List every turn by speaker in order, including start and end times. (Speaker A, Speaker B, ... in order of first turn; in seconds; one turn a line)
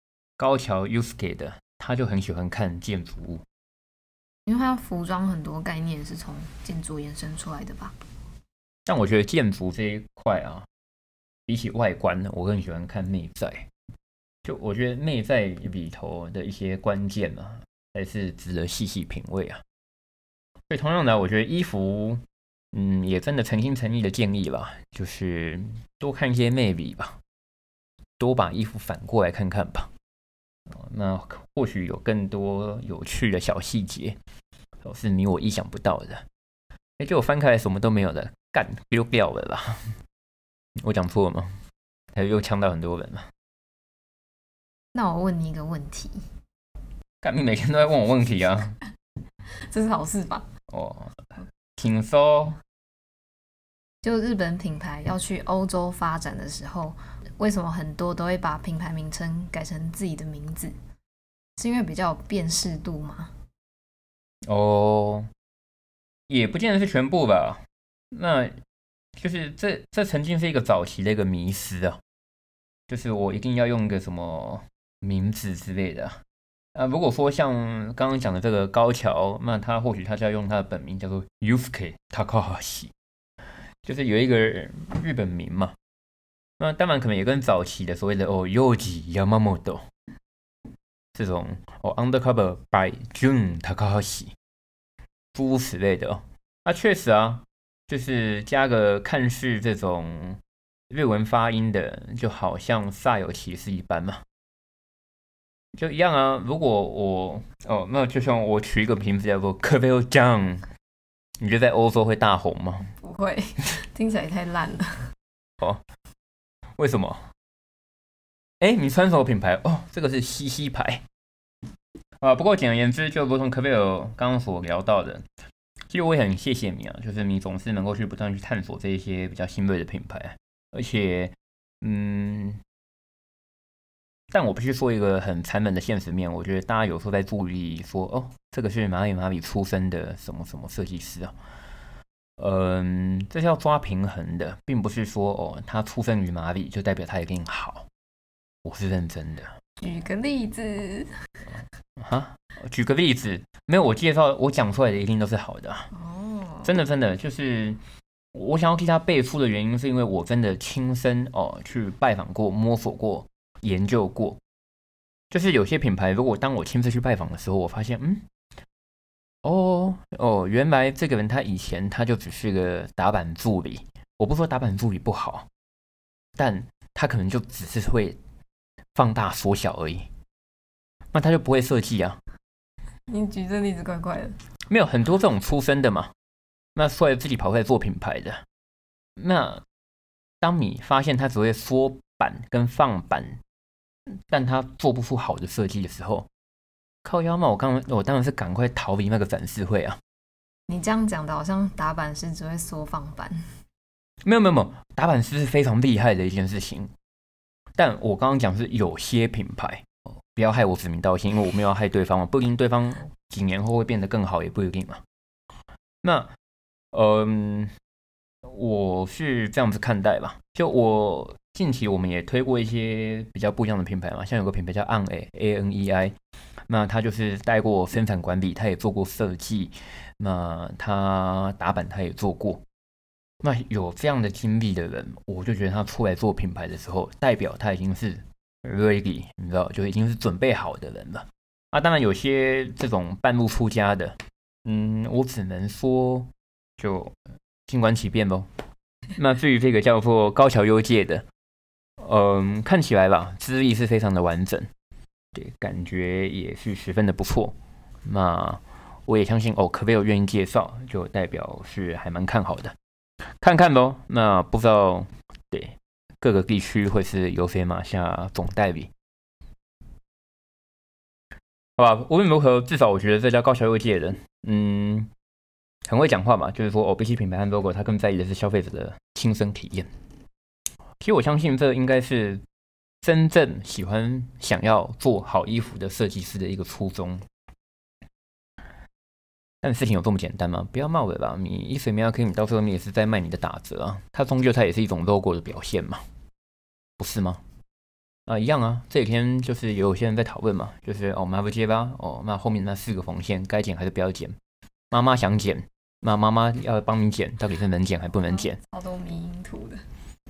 Speaker A: 0.4-3.4
Speaker B: 4.5-7.9
Speaker A: 8.8-10.7
Speaker A: 11.5-13.7
Speaker A: 14.4-19.6
Speaker A: 20.7-27.2
Speaker A: 28.2-29.9
Speaker A: 30.7-34.2
Speaker A: 34.8-36.2
Speaker A: 37.0-40.0
Speaker A: 40.8-41.6
Speaker A: 42.1-43.3
Speaker B: 44.9-46.3
Speaker A: 47.2-48.8
Speaker B: 49.6-50.5
Speaker A: 50.7-52.6
Speaker B: 54.0-60.8
Speaker B: 61.6-63.3
Speaker A: 64.5-65.3
Speaker A: 66.3-68.6
Speaker A: 69.2-72.0
Speaker A: 72.9-76.2
Speaker A: 76.7-82.9
Speaker A: 83.8-85.8
Speaker A: 86.6-89.9
Speaker A: 91.1-94.3
Speaker A: 95.3-104.2
Speaker A: 105.7-110.7
Speaker A: 111.4-112.9
Speaker B: 113.0-115.1
Speaker A: 116.8-117.3
Speaker A: 118.6-121.0
Speaker A: 122.2-125.2
Speaker A: 125.9-132.6
Speaker A: 134.3-141.3
Speaker A: 142.4-147.9
Speaker A: 148.6-149.5
Speaker B: 149.8-151.1
Speaker A: 152.0-155.9
Speaker B: 155.9-156.7
Speaker A: 156.6-157.8
Speaker A: 158.3-164.4
Speaker A: 165.3-168.2
Speaker A: 169.4-175.5
Speaker A: 176.4-178.2
Speaker A: 178.9-180.1
Speaker A: 181.1-182.2
Speaker B: 183.1-184.4
Speaker A: 184.7-186.1
Speaker A: 186.7-188.4
Speaker A: 189.2-189.6
Speaker A: 190.4-193.4
Speaker A: 194.3-196.3
Speaker A: 197.0-200.0
Speaker B: 200.7-203.6
Speaker A: 204.2-206.9
Speaker A: 207.8-215.0
Speaker A: 216.0-216.3
Speaker A: 216.9-217.7
Speaker A: 218.4-226.1
Speaker A: 226.7-232.6
Speaker A: 233.4-248.5
Speaker A: 249.2-251.2
Speaker A: 252.0-254.7
Speaker A: 255.3-262.7
Speaker A: 263.4-268.9
Speaker A: 271.8-275.1
Speaker A: 275.9-279.9
Speaker A: 281.0-282.4
Speaker A: 283.0-287.2
Speaker A: 289.6-296.0
Speaker A: 297.0-297.4
Speaker A: 298.3-304.4
Speaker A: 304.9-308.6
Speaker B: 308.2-309.9